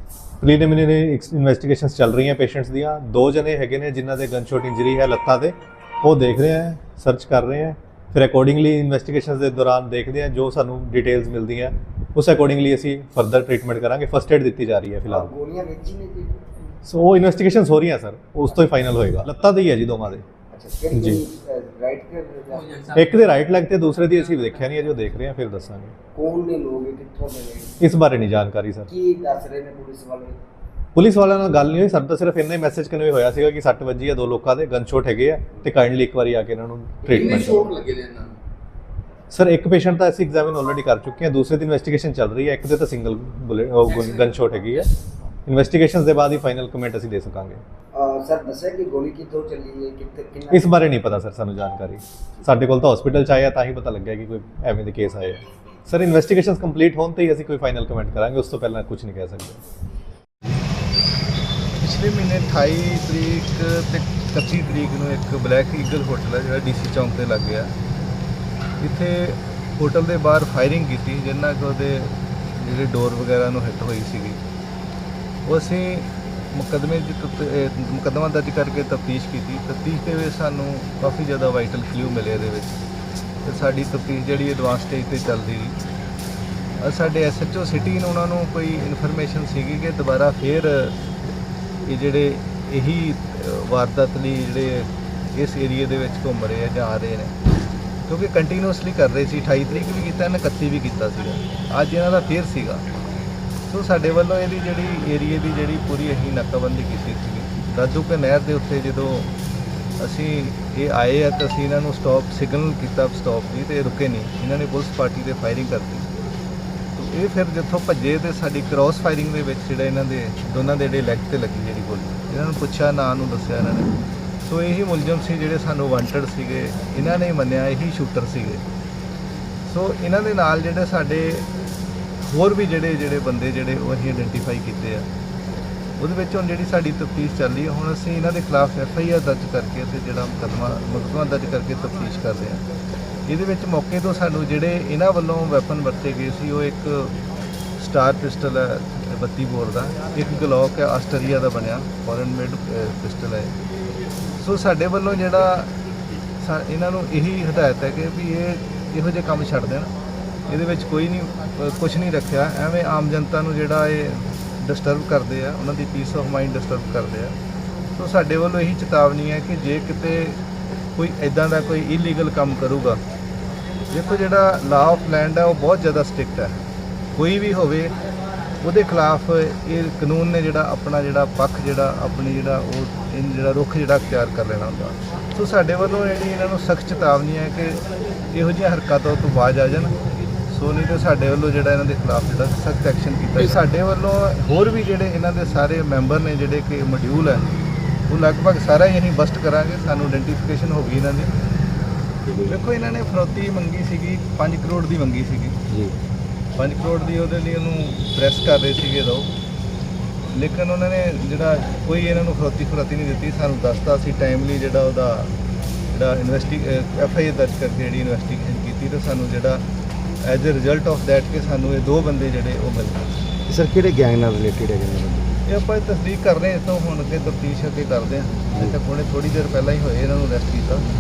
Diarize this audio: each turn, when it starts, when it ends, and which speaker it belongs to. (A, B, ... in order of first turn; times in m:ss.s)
0:00.4-0:15.3 A
0:15.1-0:16.4 B
0:16.8-0:20.2 A
0:20.5-0:22.8 B
0:20.9-0:21.2 A
0:22.6-0:22.9 C
0:22.9-0:26.0 A
0:26.1-0:27.8 B
0:27.8-0:28.9 A
0:28.9-0:30.4 B
0:31.0-0:37.7 A
0:37.0-0:38.3 C
0:39.3-0:44.9 A
0:43.9-0:44.4 C
0:45.4-0:47.6 A
0:47.9-0:50.7 B
0:50.5-0:59.6 A
1:01.8-1:07.7 D
1:08.8-1:14.4 D
1:15.4-1:22.8 D
1:23.4-1:25.8 D
1:26.8-1:31.0 D
1:31.8-1:37.3 D
1:38.1-1:42.8 D
1:43.7-1:49.3 D
1:50.0-1:56.1 D
1:57.0-2:03.9 D
2:04.4-2:08.6 D
2:09.7-2:11.5 D
2:12.2-2:15.1 D
2:16.0-2:22.6 D
2:23.3-2:27.2 D
2:27.8-2:33.5 D
2:34.4-2:35.7 D
2:36.4-2:39.9 D
2:40.5-2:47.4 D
2:48.0-2:50.4 D
2:51.0-2:53.0 D
2:53.9-2:56.6 D
2:57.2-2:57.9 D
2:58.6-3:09.9 D
3:10.5-3:17.4 D
3:18.1-3:21.3 D
3:22.2-3:22.6 B
3:22.4-3:25.6 D
3:25.7-3:25.9 B
3:26.6-3:29.3 D
3:30.3-3:35.3 D
3:35.9-3:39.6 D
3:40.2-3:43.1 D
3:43.5-3:45.4 B
3:45.4-3:50.8 D